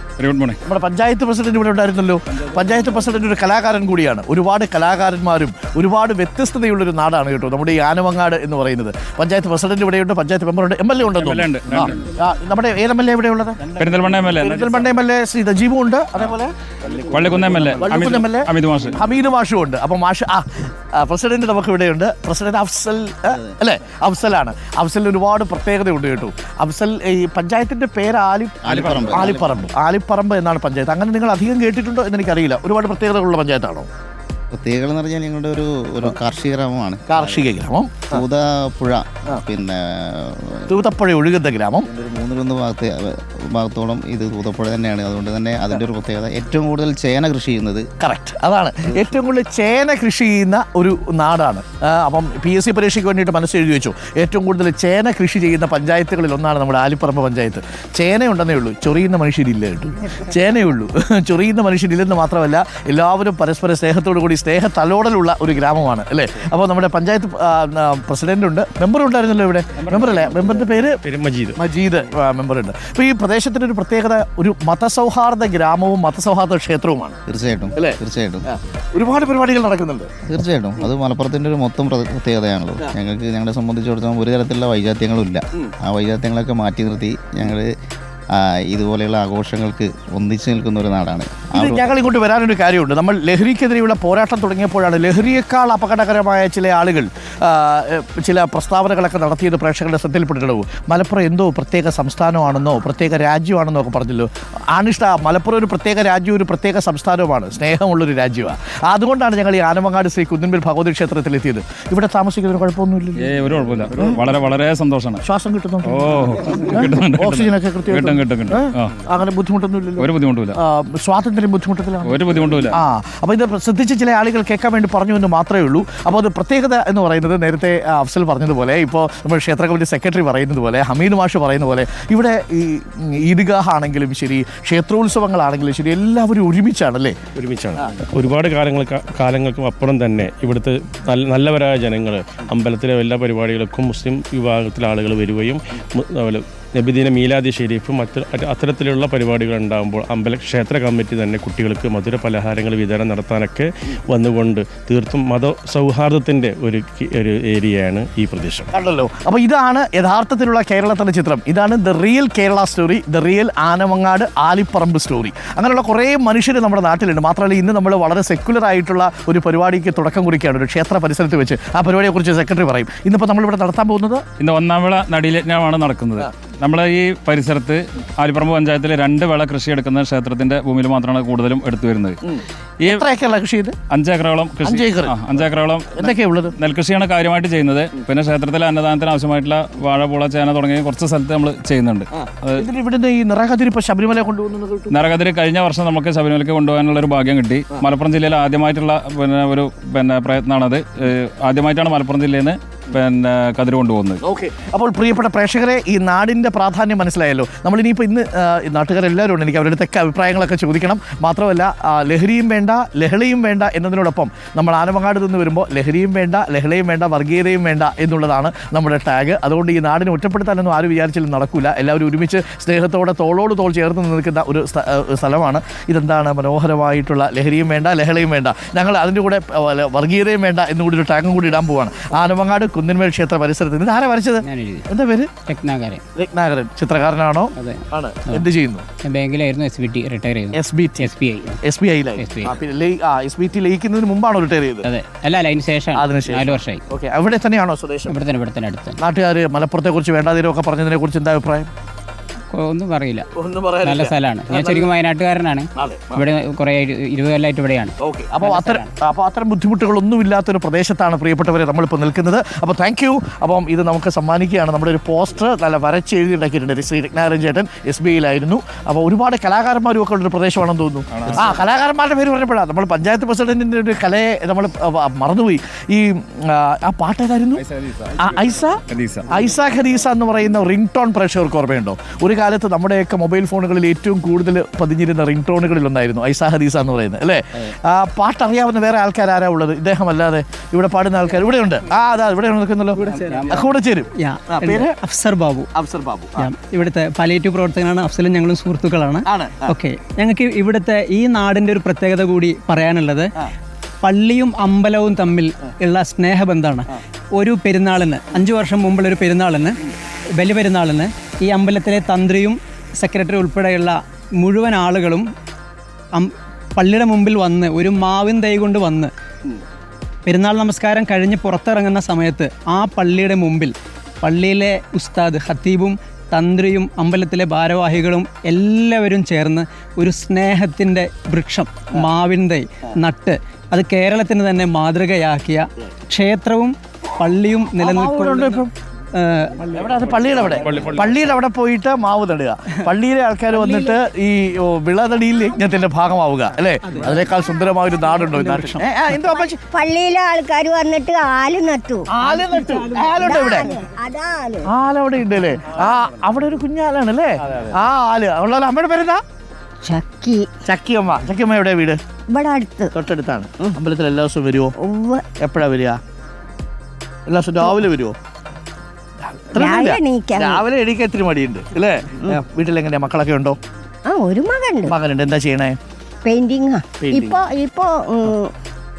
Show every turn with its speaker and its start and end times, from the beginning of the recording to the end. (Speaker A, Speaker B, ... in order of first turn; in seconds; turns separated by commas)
Speaker A: 0.2-0.6, Speaker B: 0.7-13.7, Speaker A: 11.1-12.0, Speaker A: 13.7-14.8, Speaker B: 14.4-16.5, Speaker A: 16.9-19.0, Speaker B: 17.8-33.9, Speaker C: 28.6-29.6, Speaker A: 28.7-29.4, Speaker C: 34.5-37.5, Speaker B: 37.1-38.2, Speaker C: 38.1-40.8, Speaker B: 40.7-41.9, Speaker C: 41.9-47.9, Speaker B: 48.0-71.0, Speaker A: 69.9-70.4, Speaker D: 71.0-71.6, Speaker B: 71.6-77.2, Speaker C: 77.3-78.5, Speaker B: 77.8-80.1, Speaker C: 80.2-87.7, Speaker C: 88.4-92.0, Speaker B: 91.5-113.2, Speaker A: 113.2-115.2, Speaker B: 115.2-116.0, Speaker A: 115.9-119.0, Speaker B: 116.7-122.2, Speaker A: 120.0-120.6, Speaker A: 122.0-122.8, Speaker B: 122.7-137.2, Speaker D: 137.4-158.7, Speaker B: 158.7-174.2, Speaker A: 174.4-182.2, Speaker B: 182.3-183.8, Speaker A: 183.9-192.7, Speaker B: 184.6-185.2, Speaker B: 185.9-186.6, Speaker B: 192.2-194.9, Speaker A: 194.9-204.2, Speaker B: 204.2-235.3, Speaker E: 234.4-234.9, Speaker E: 235.5-236.0, Speaker B: 236.2-238.8, Speaker E: 237.6-238.5, Speaker E: 239.0-241.6, Speaker B: 240.5-241.1, Speaker B: 241.6-244.9, Speaker E: 242.2-242.6, Speaker E: 244.8-246.8, Speaker B: 245.9-248.2, Speaker E: 248.1-249.0, Speaker B: 249.0-251.7, Speaker E: 252.5-253.3, Speaker B: 253.3-254.9, Speaker E: 253.8-258.9, Speaker B: 255.8-256.2, Speaker B: 258.0-277.6, Speaker A: 271.1-271.6, Speaker A: 277.6-279.3, Speaker B: 278.2-294.9, Speaker F: 293.0-293.5, Speaker E: 293.2-293.7, Speaker F: 294.2-295.7, Speaker B: 295.7-296.5, Speaker F: 296.4-303.3, Speaker B: 299.3-299.8, Speaker F: 304.0-309.8, Speaker F: 310.4-315.3, Speaker F: 316.1-319.1, Speaker F: 320.3-339.7, Speaker B: 337.8-338.7, Speaker B: 339.7-349.6, Speaker D: 340.2-341.2, Speaker F: 343.5-343.9, Speaker F: 346.9-347.2, Speaker F: 348.3-348.8, Speaker G: 349.1-352.1, Speaker B: 352.1-353.7, Speaker F: 352.6-353.0, Speaker G: 353.1-354.7, Speaker B: 354.7-359.2, Speaker G: 359.8-360.5, Speaker B: 360.6-362.0, Speaker G: 362.3-362.9, Speaker B: 362.9-364.7, Speaker G: 364.8-365.2, Speaker B: 365.4-366.0, Speaker B: 367.3-368.1, Speaker B: 369.2-373.6, Speaker G: 369.6-370.6, Speaker G: 374.1-374.9, Speaker B: 374.9-375.8, Speaker G: 376.2-378.5, Speaker B: 377.0-377.4